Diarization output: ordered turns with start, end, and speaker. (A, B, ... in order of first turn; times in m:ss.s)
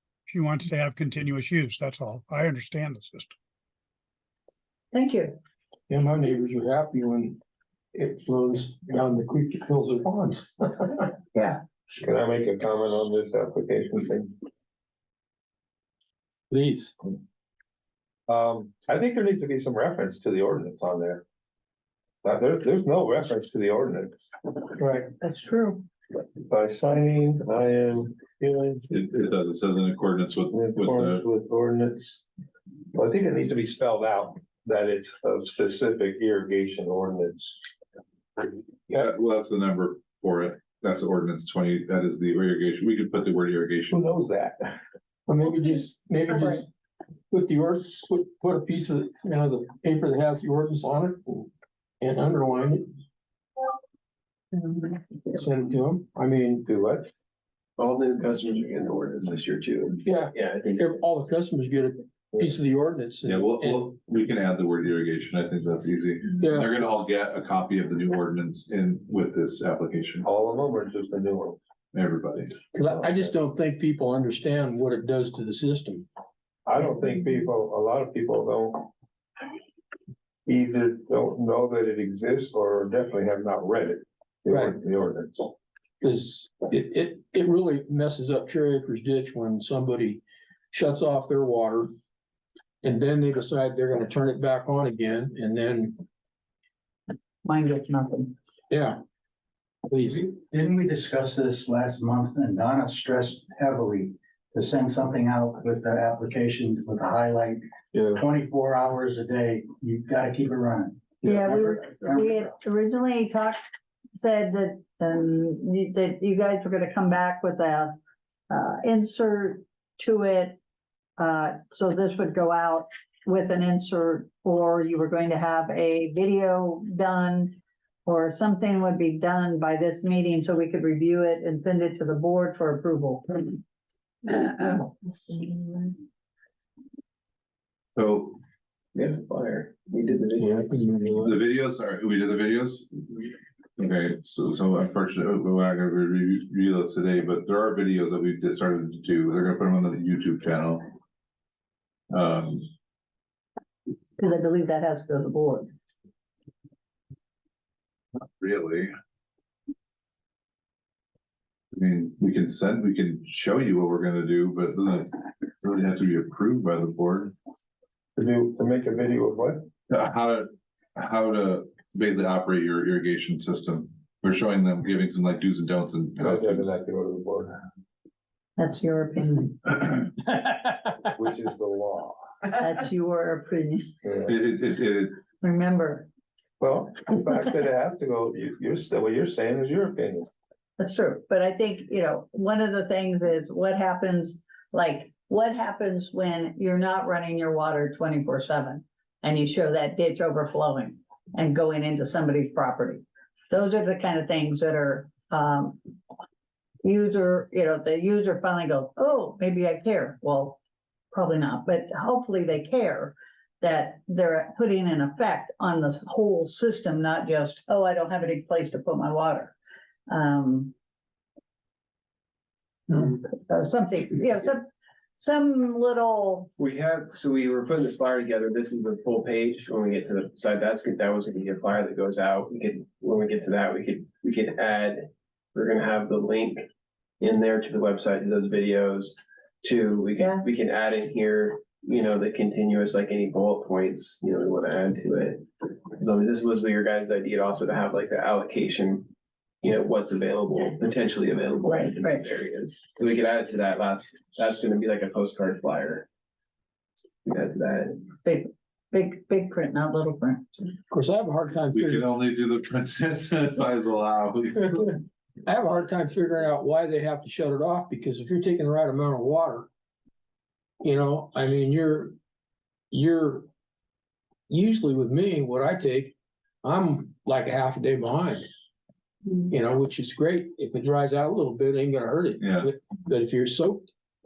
0:00.3-0:03.3 A
0:04.9-0:05.4 B
0:05.9-0:07.4 C
0:07.9-0:11.1 C
0:11.3-0:11.6 B
0:12.0-0:14.4 D
0:16.5-0:16.9 C
0:18.3-0:21.2 D
0:22.2-0:24.2 D
0:25.2-0:25.8 B
0:26.4-0:28.9 D
0:28.9-0:31.2 E
0:30.5-0:32.2 D
0:32.9-0:37.6 D
0:38.9-0:44.0 E
0:43.9-0:44.7 D
0:45.3-0:46.7 C
0:47.3-0:51.5 C
0:52.0-0:52.9 C
0:54.6-0:54.9 B
0:55.3-0:56.6 C
0:56.6-0:57.1 D
0:57.8-1:00.9 F
1:00.0-1:03.8 C
1:03.2-1:10.3 E
1:06.4-1:06.9 C
1:10.2-1:11.6 D
1:11.9-1:12.7 E
1:12.7-1:16.1 C
1:12.8-1:13.3 D
1:16.6-1:18.9 D
1:20.5-1:25.5 D
1:24.5-1:24.8 C
1:26.0-1:31.9 C
1:32.8-1:36.0 C
1:37.4-1:38.3 B
1:38.7-1:39.0 C
1:39.9-1:40.2 C
1:40.1-1:52.5 G
1:47.9-1:48.2 C
1:51.2-1:53.6 B
1:54.2-1:57.9 B
1:58.5-2:00.6 B
2:01.2-2:13.6 B
2:14.2-2:16.0 B
2:18.0-2:18.4 E
2:18.9-2:20.5 F
2:20.4-2:21.4 C
2:21.2-2:30.9 E
2:32.1-2:32.7 E
2:34.2-2:35.7 B
2:38.4-2:38.9 E
2:41.7-2:45.1 E
2:45.6-2:47.3 E
2:48.2-2:49.6 D
2:49.9-2:56.7 E
2:56.2-2:57.6 D
2:58.6-2:59.7 B
3:01.2-3:02.2 D
3:02.6-3:03.9 B
3:04.2-3:05.2 E
3:05.4-3:06.1 B
3:06.6-3:10.3 D
3:10.8-3:25.8 B
3:26.8-3:30.6 B
3:31.1-3:39.5 B
3:40.1-3:40.7 B
3:42.9-3:46.5 B
3:46.6-3:56.6 F
3:57.2-4:05.4 F
4:00.2-4:00.4 B
4:06.0-4:09.1 F
4:09.6-4:16.0 F
4:11.6-4:12.2 B
4:17.2-4:18.0 F
4:18.2-4:20.5 B
4:20.9-4:22.0 C
4:21.7-4:25.0 E
4:25.4-4:29.7 C
4:30.8-4:32.1 C
4:32.9-4:33.5 C
4:34.5-4:38.5 C
4:39.5-4:43.9 C
4:42.4-4:42.7 E